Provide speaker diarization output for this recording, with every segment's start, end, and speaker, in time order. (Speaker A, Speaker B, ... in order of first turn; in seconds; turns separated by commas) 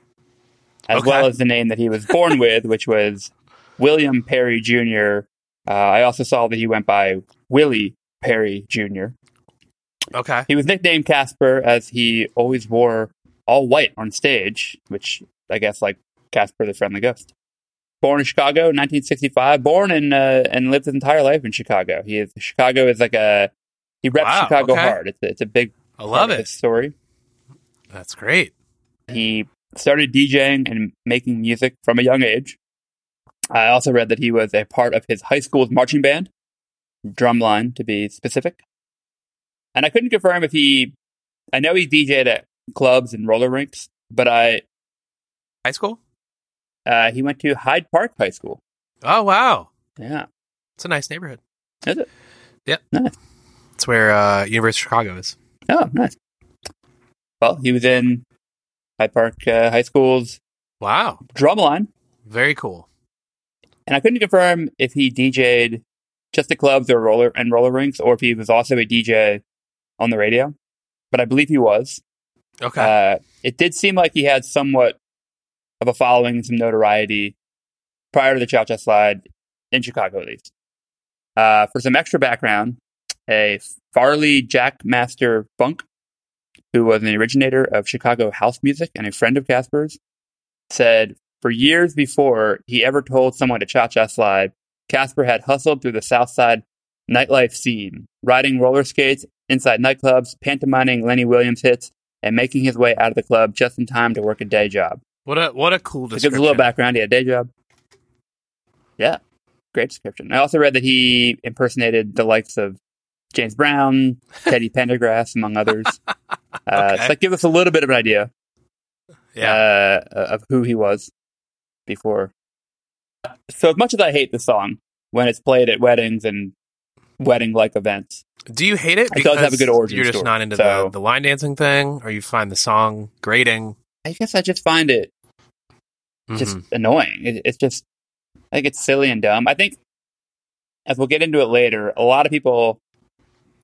Speaker A: 0.9-9.1, Speaker B: 0.9-1.3, Speaker B: 10.1-10.5, Speaker A: 10.5-17.3, Speaker A: 18.0-23.5, Speaker A: 24.0-26.9, Speaker B: 24.2-25.0, Speaker B: 26.0-26.4, Speaker B: 27.9-28.5, Speaker A: 29.1-32.6, Speaker A: 33.5-36.3, Speaker A: 37.1-38.6, Speaker A: 39.7-40.9, Speaker A: 41.5-44.6, Speaker B: 45.6-46.0, Speaker A: 46.9-48.6, Speaker B: 49.0-49.7, Speaker A: 50.0-50.2, Speaker B: 50.8-51.4, Speaker B: 53.8-55.3, Speaker A: 55.7-56.1, Speaker A: 57.4-58.2, Speaker A: 59.0-60.4, Speaker B: 60.8-61.2, Speaker A: 61.3-61.9, Speaker B: 62.2-62.9, Speaker A: 63.9-65.8, Speaker A: 66.3-69.4, Speaker A: 70.0-70.5, Speaker A: 71.1-72.0, Speaker B: 72.6-72.9, Speaker A: 72.8-75.0, Speaker A: 75.8-77.3, Speaker A: 78.1-80.5, Speaker A: 81.4-85.8, Speaker A: 86.7-90.0, Speaker A: 90.7-105.0, Speaker B: 105.2-106.7, Speaker A: 106.1-107.5, Speaker A: 109.7-112.8, Speaker A: 113.3-116.0, Speaker A: 116.7-118.3, Speaker B: 116.7-117.1, Speaker B: 119.3-119.6, Speaker A: 119.4-121.1, Speaker A: 121.9-122.3, Speaker A: 123.5-126.5, Speaker A: 127.2-128.2, Speaker B: 128.5-133.8, Speaker A: 129.1-130.9, Speaker A: 134.0-135.1, Speaker B: 136.3-136.6, Speaker A: 136.3-137.8, Speaker A: 138.5-139.8, Speaker A: 140.9-142.8